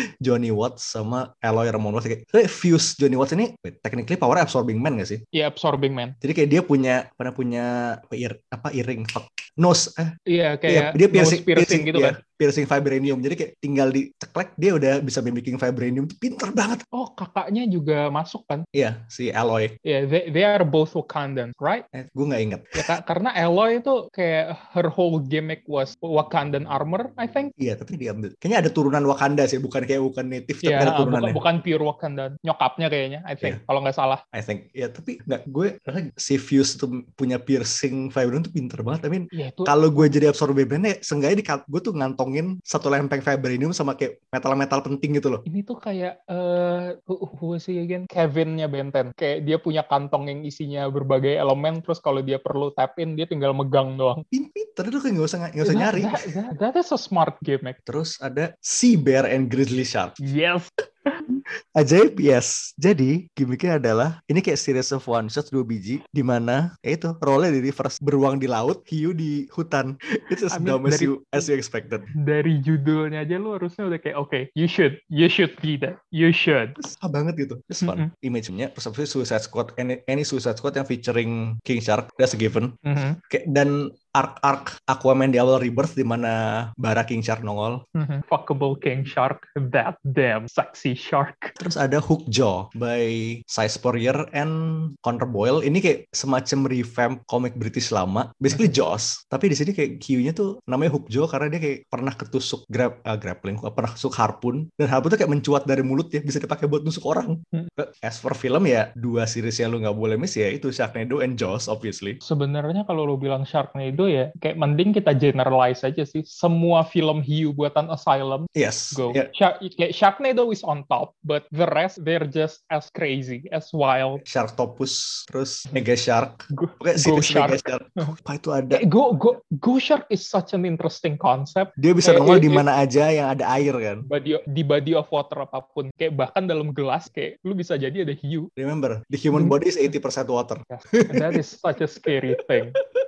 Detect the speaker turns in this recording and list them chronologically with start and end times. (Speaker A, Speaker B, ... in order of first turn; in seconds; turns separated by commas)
Speaker A: 0.2-5.2, Speaker B: 5.3-6.2, Speaker A: 6.2-10.2, Speaker B: 10.3-12.2, Speaker A: 10.7-16.8, Speaker B: 16.9-18.6, Speaker A: 18.7-19.8, Speaker B: 19.9-21.9, Speaker A: 21.9-22.9, Speaker B: 22.8-27.5, Speaker A: 27.6-31.4, Speaker B: 30.6-34.2, Speaker A: 34.3-45.4, Speaker B: 39.3-40.2, Speaker B: 45.5-54.2, Speaker A: 54.3-56.3, Speaker B: 55.6-57.8, Speaker A: 57.9-60.2, Speaker B: 60.2-61.2, Speaker A: 61.3-72.1, Speaker B: 70.5-71.5, Speaker B: 72.2-76.8, Speaker A: 76.8-87.8, Speaker B: 77.8-78.1, Speaker B: 82.9-83.2, Speaker B: 88.0-91.6, Speaker A: 91.6-112.2, Speaker B: 112.2-124.2, Speaker A: 118.5-119.3, Speaker A: 124.2-128.8, Speaker B: 126.5-128.1, Speaker B: 128.7-132.6, Speaker A: 131.8-134.1, Speaker B: 134.1-138.5, Speaker A: 138.6-141.4, Speaker B: 139.3-139.6, Speaker B: 140.7-142.8, Speaker A: 142.0-142.6